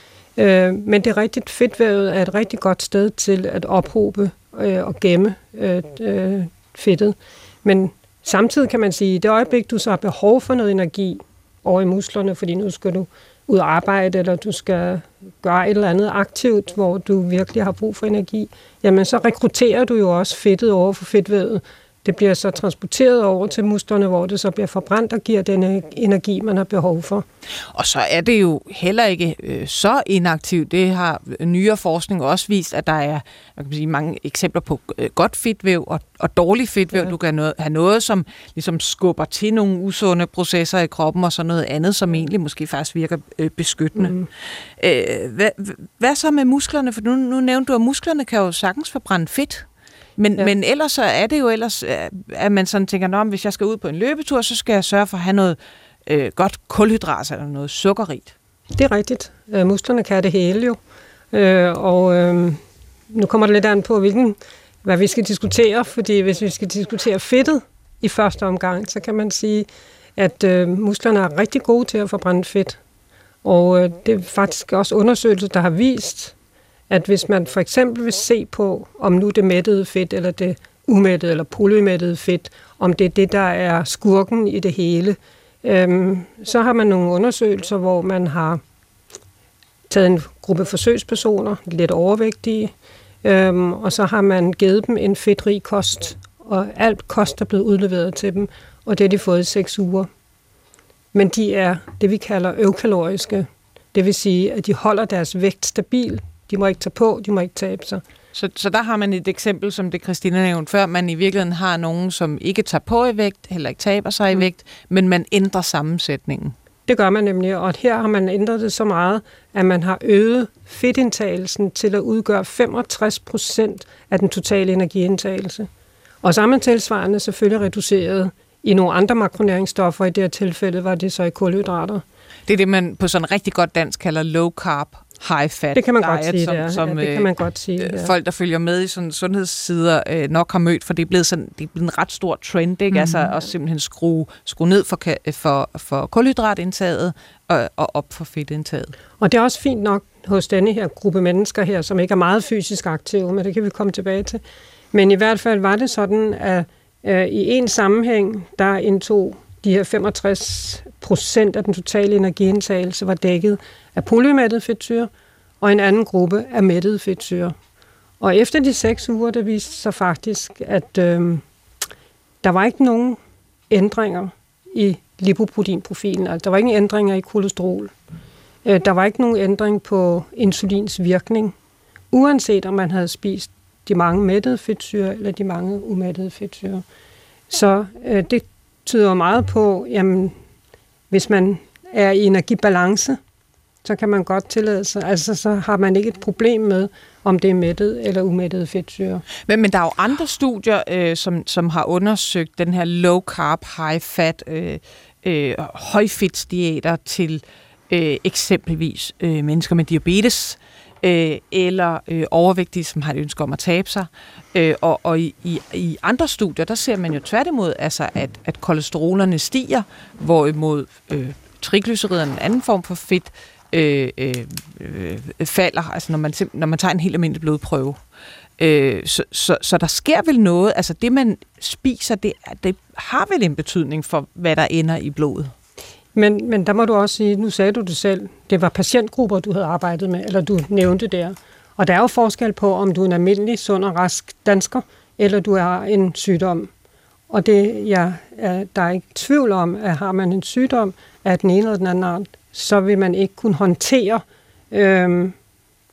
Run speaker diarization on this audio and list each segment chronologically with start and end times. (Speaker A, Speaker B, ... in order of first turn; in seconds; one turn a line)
Speaker A: 0.4-27.2
Speaker B: 27.7-49.6
Speaker A: 44.0-44.2
Speaker B: 50.2-58.3
Speaker A: 58.7-60.8
Speaker A: 61.3-62.6
Speaker A: 63.1-72.8
Speaker A: 73.4-76.3
Speaker A: 76.9-88.6
Speaker A: 89.9-92.7
Speaker A: 93.2-100.1
Speaker A: 101.1-108.0
Speaker B: 108.3-116.5
Speaker A: 116.9-125.7
Speaker A: 126.2-132.0
Speaker B: 132.5-148.9
Speaker A: 135.7-138.1
Speaker A: 149.2-154.4
Speaker A: 154.9-165.1
Speaker A: 165.6-167.5
Speaker A: 168.2-171.4
Speaker A: 172.4-173.2
Speaker A: 173.7-177.9
Speaker A: 178.6-181.5
Speaker A: 182.1-186.8
Speaker A: 187.5-190.3
Speaker A: 191.1-193.2
Speaker A: 193.8-199.2
Speaker B: 199.4-228.0
Speaker B: 228.6-235.5
Speaker A: 236.1-246.7
Speaker A: 247.3-255.3